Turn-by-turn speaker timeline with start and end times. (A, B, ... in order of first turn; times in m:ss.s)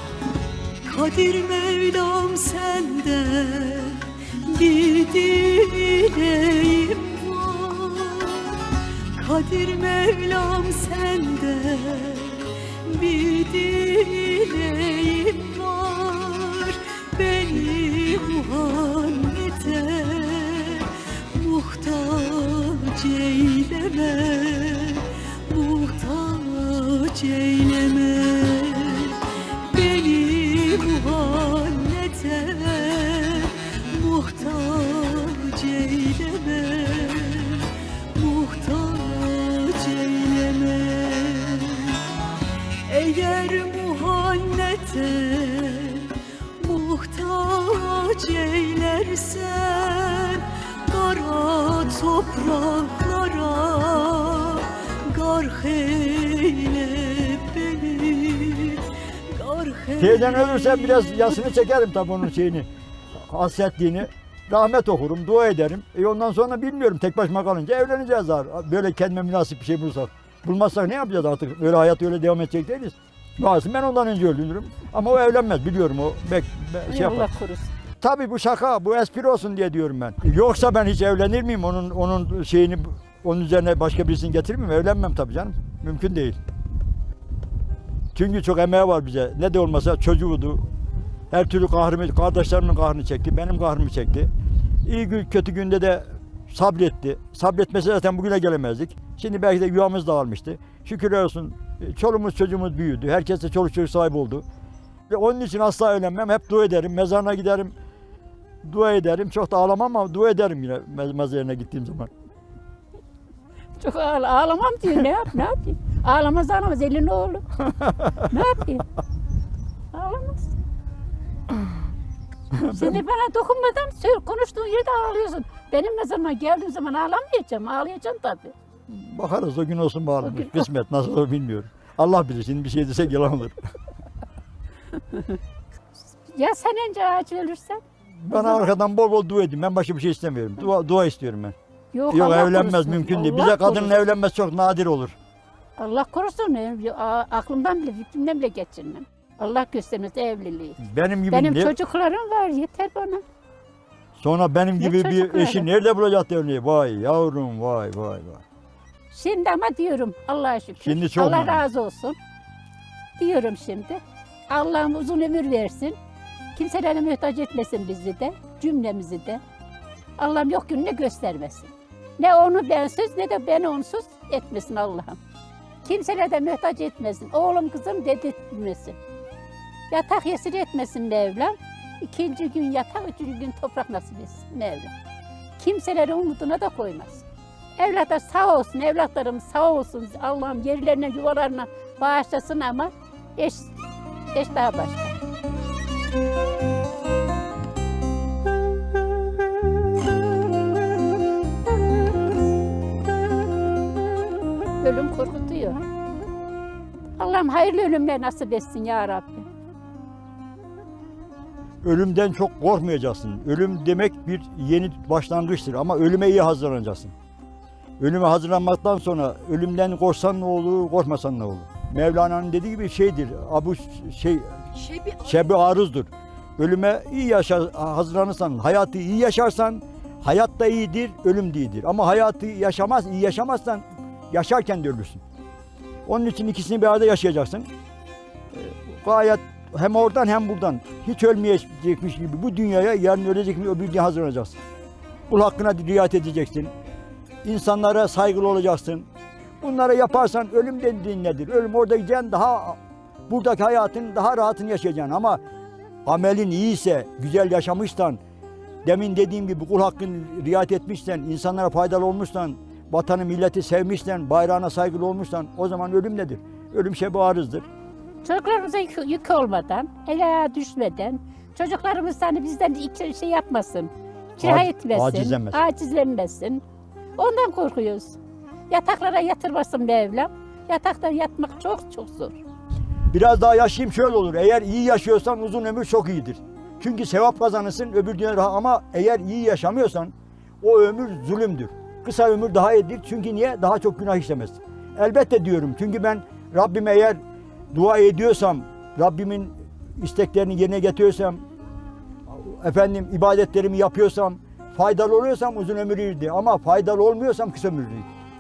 0:00.9-0:08.5 A
0:09.2-0:29.2 A
0:29.7-0:42.0 A
0:42.9-1:01.3 A
1:00.0-1:17.3 B
1:16.9-1:17.7 C
1:18.0-1:26.4 B
1:28.1-1:30.6 B
1:31.3-1:34.3 B
1:34.8-1:44.4 B
1:45.1-1:47.7 B
1:48.6-1:52.1 B
1:53.8-1:57.4 C
1:57.8-1:58.2 B
1:58.2-1:58.9 C
1:59.9-2:00.5 C
2:02.5-2:03.0 B
2:02.7-2:08.6 C
2:08.9-2:13.6 B
2:10.2-2:10.6 C
2:16.3-2:18.7 C
2:18.2-2:21.6 B
2:21.9-2:24.0 C
2:22.1-2:25.2 B
2:25.8-2:30.8 C
2:30.8-2:31.7 B
2:31.3-2:33.2 C
2:34.2-2:38.4 B
2:34.8-2:35.7 C
2:39.1-2:42.2 C
2:40.8-2:41.6 B
2:43.2-2:46.0 C
2:46.6-2:49.4 C
2:50.2-2:55.2 C
2:55.8-2:59.0 C
2:59.9-3:04.9 C
3:05.6-3:07.2 C
3:07.8-3:13.8 C
3:14.3-3:15.2 C
3:24.8-3:25.8 C
3:27.2-3:29.5 C
3:31.8-3:37.1 B
3:38.0-3:55.2 B
3:56.1-3:57.7 B
3:58.5-4:04.6 B
4:05.3-4:06.7 B
4:07.4-4:09.1 B
4:09.6-4:15.4 B
4:16.0-4:18.2 B
4:18.8-4:27.7 B
4:28.2-4:36.6 C
4:34.4-4:35.6 B
4:37.2-4:38.2 C
4:38.7-4:42.4 C
4:43.1-4:57.2 B
4:57.7-5:01.4 B
5:02.3-5:08.1 B